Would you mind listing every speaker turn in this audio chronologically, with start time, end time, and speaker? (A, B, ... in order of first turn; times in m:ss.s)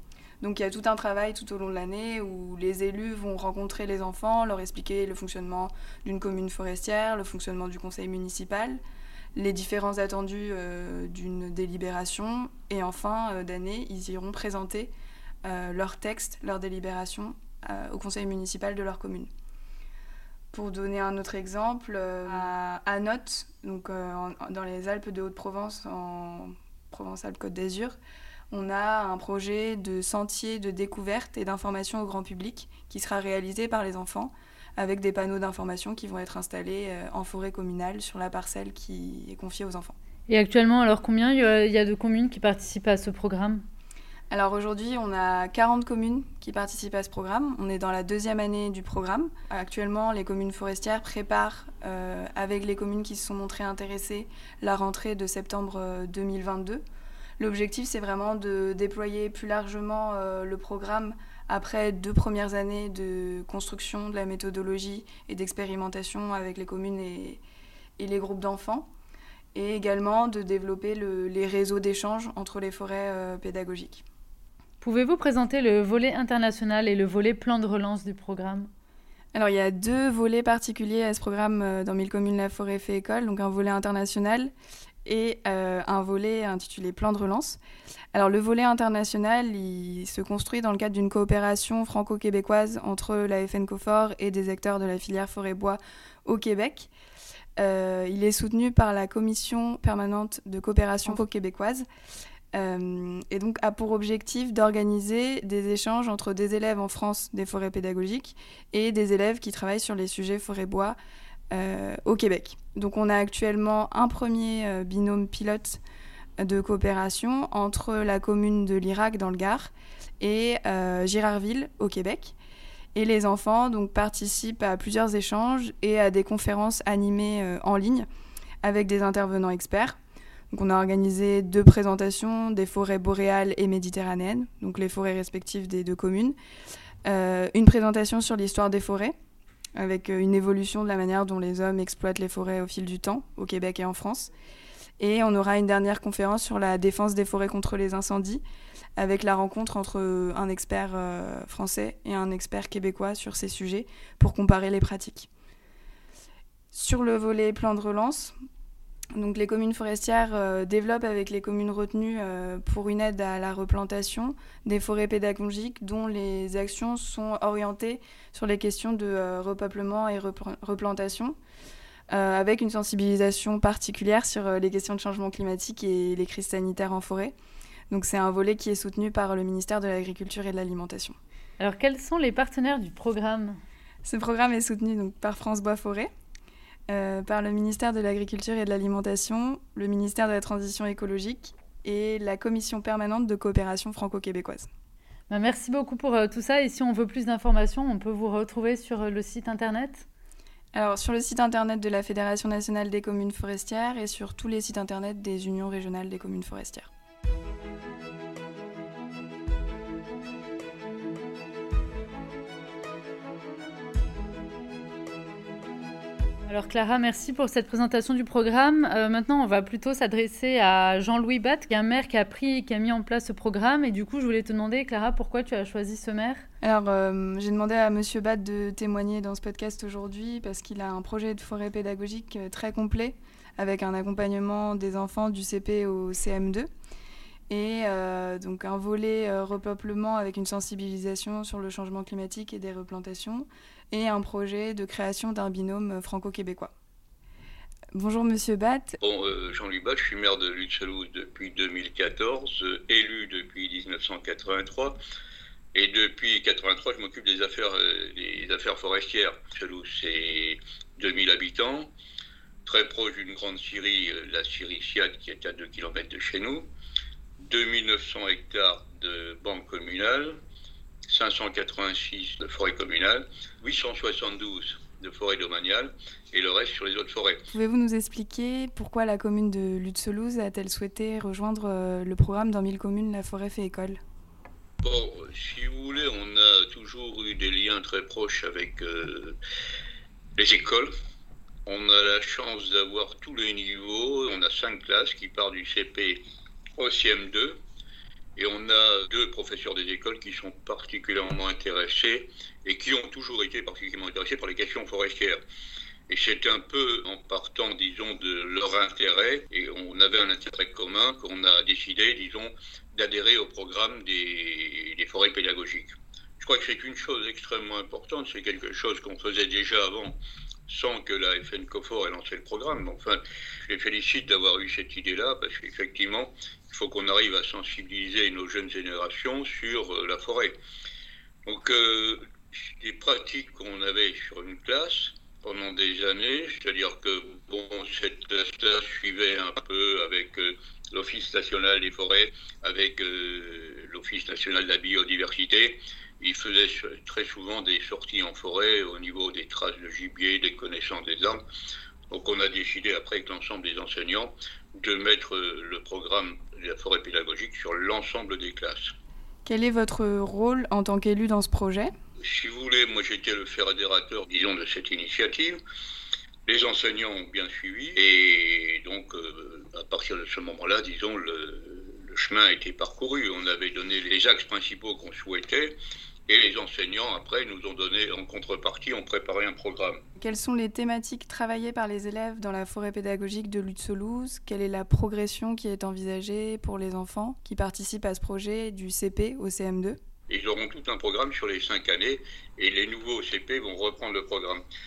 0:00.4-0:08.8 A
0:09.4-0:14.9 A
0:15.4-0:19.3 A
0:20.5-0:28.0 A
0:28.5-0:40.0 A
0:40.3-0:43.6 B
0:44.3-0:56.8 A
0:57.4-1:07.4 A
1:08.0-1:08.9 A
1:09.5-1:14.0 A
1:14.8-1:18.7 B
1:19.4-1:24.5 A
1:25.0-1:27.6 A
1:28.1-1:36.9 A
1:37.6-1:41.9 A
1:42.5-1:51.0 A
1:51.5-1:55.8 A
1:56.4-2:02.4 A
2:03.0-2:08.1 A
2:08.6-2:10.0 A
2:10.5-2:16.4 A
2:17.1-2:19.2 A
2:19.8-2:24.3 A
2:25.0-2:28.4 A
2:29.0-2:35.3 A
2:36.7-2:38.4 A
2:39.2-2:51.4 A
2:52.1-2:57.4 A
2:57.9-3:01.2 A
3:01.6-3:03.6 B
3:04.0-3:06.1 A
3:06.9-3:14.7 A
3:15.3-3:20.1 B
3:20.7-3:26.9 A
3:36.5-3:46.4 B
3:46.6-3:56.7 A
3:57.5-4:06.7 A
4:07.9-4:09.0 A
4:09.0-4:15.0 C
4:15.7-4:21.9 C
4:22.6-4:26.7 C
4:27.4-4:30.4 C
4:31.1-4:37.4 C
4:37.5-4:44.0 A
4:44.8-4:49.4 C
4:50.4-4:50.9 C
4:51.7-4:56.2 C
4:56.8-4:57.6 C
4:58.4-5:05.4 C
5:06.1-5:30.6 C
5:31.4-5:51.4 C
5:52.1-5:59.0 C
5:59.4-6:01.9 A
6:02.2-6:05.6 C
6:06.5-6:15.8 C
6:16.3-6:20.0 C
6:20.2-6:30.0 A
6:30.3-6:34.6 C